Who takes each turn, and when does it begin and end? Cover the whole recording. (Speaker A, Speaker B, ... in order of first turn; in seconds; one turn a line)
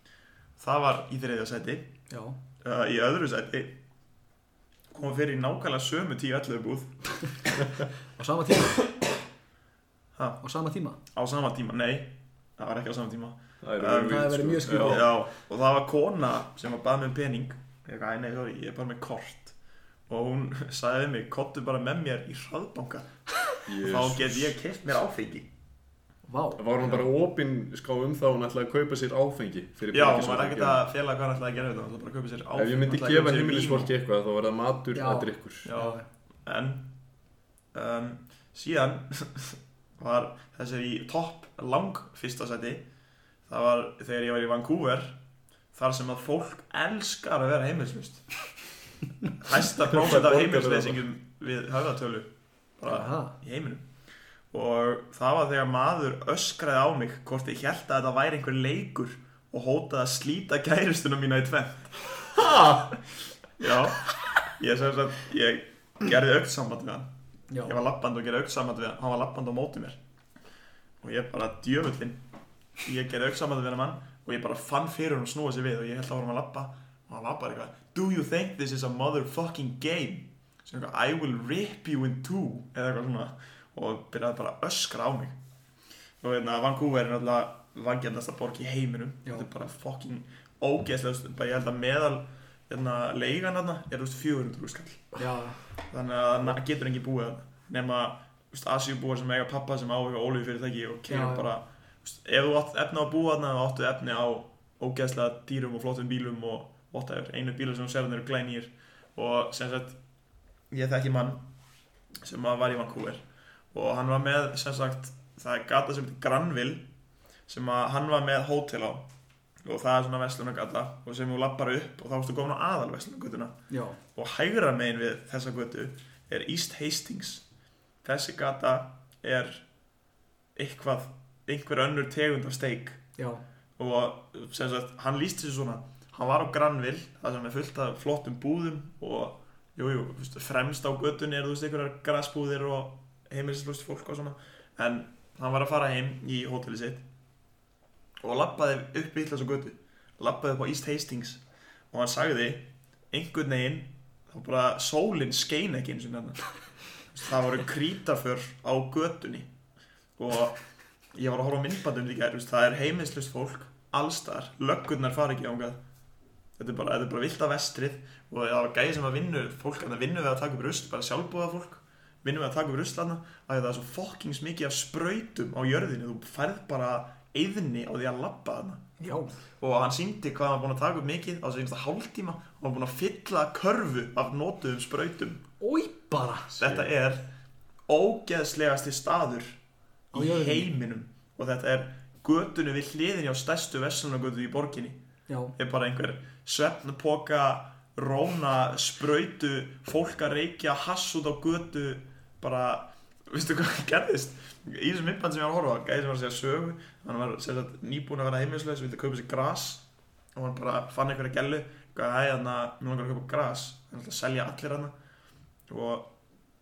Speaker A: 0.6-1.9
Speaker B: 2.1-2.4
Speaker A: 2.6-3.8
Speaker A: 4.9-7.0
Speaker B: 8.2-8.8
Speaker A: 10.2-10.4
Speaker B: 10.4-11.0
Speaker A: 11.1-19.5
Speaker C: 13.6-15.1
Speaker B: 14.1-15.1
Speaker A: 20.1-25.5
Speaker C: 23.6-24.6
Speaker B: 26.3-26.9
Speaker C: 26.6-30.8
Speaker A: 29.9-33.9
Speaker C: 32.5-35.7
Speaker B: 34.9-36.0
Speaker A: 35.6-36.9
Speaker A: 37.7-42.8
Speaker A: 43.5-45.2
Speaker A: 45.7-48.4
Speaker A: 49.4-53.9
Speaker C: 49.9-51.0
Speaker B: 52.8-53.3
Speaker A: 54.5-62.2
Speaker B: 62.4-62.9
Speaker A: 63.6-67.1
Speaker B: 67.5-67.8
Speaker A: 67.6-70.0
Speaker A: 71.0-72.2
Speaker A: 72.8-85.3
Speaker A: 86.2-95.2
Speaker B: 95.2-95.6
Speaker A: 95.9-110.0
Speaker B: 101.1-101.5
Speaker A: 110.7-111.5
Speaker A: 112.2-113.2
Speaker A: 113.7-116.8
Speaker A: 117.5-119.1
Speaker A: 119.6-123.6
Speaker B: 123.7-124.0
Speaker A: 124.1-127.4
Speaker A: 128.0-129.6
Speaker A: 130.6-133.0
Speaker B: 133.2-133.4
Speaker A: 133.8-147.0
Speaker A: 148.2-156.5
Speaker A: 157.1-159.5
Speaker A: 160.2-160.6
Speaker A: 161.1-165.8
Speaker A: 166.6-179.1
Speaker B: 179.0-179.4
Speaker A: 179.6-185.4
Speaker B: 185.6-186.5
Speaker A: 186.6-187.2
Speaker A: 187.9-189.6
Speaker A: 190.1-195.0
Speaker B: 190.1-190.7
Speaker B: 195.3-195.5
Speaker A: 195.5-214.9
Speaker A: 215.7-216.1